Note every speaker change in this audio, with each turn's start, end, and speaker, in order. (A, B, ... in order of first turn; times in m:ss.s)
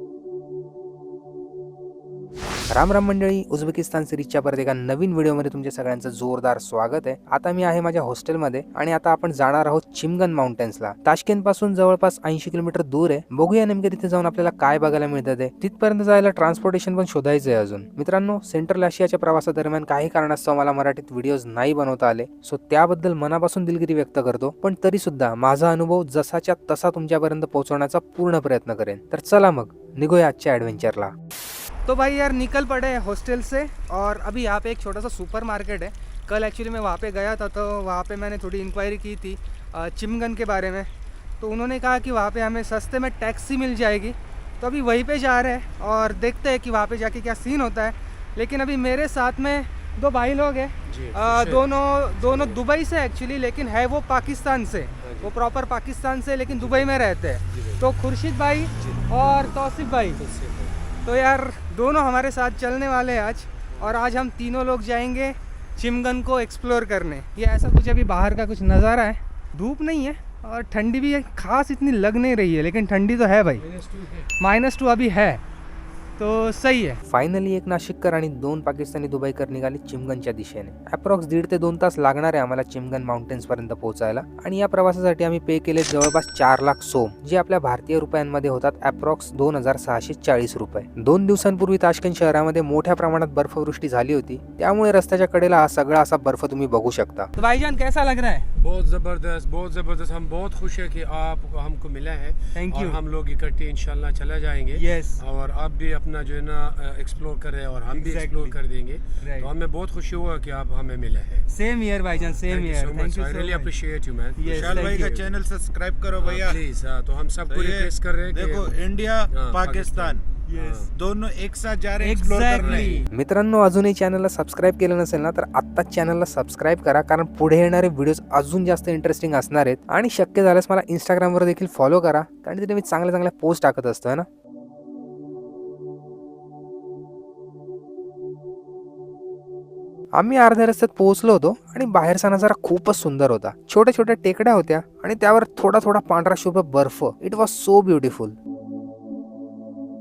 0:02.7-0:31.1 A
0:31.8-1:00.2 B
0:50.9-0:52.6 C
0:55.0-0:55.4 C
0:56.6-0:57.9 C
0:58.8-1:00.8 C
1:01.0-1:13.6 B
1:13.5-1:14.3 C
1:14.4-1:15.4 B
1:16.2-1:17.0 B
1:17.1-1:37.3 A
1:37.4-1:38.5 B
1:38.6-1:51.4 C
1:42.5-1:43.0 B
1:44.7-1:45.2 B
1:47.9-1:48.5 B
1:49.2-1:49.5 B
1:51.5-1:53.7 B
1:52.1-1:55.3 C
1:54.4-1:55.2 B
1:54.5-1:56.6 D
1:56.2-2:00.9 C
1:57.5-2:03.1 D
2:02.0-2:03.1 B
2:02.6-2:03.0 C
2:03.1-2:14.3 A
2:20.1-2:28.4 A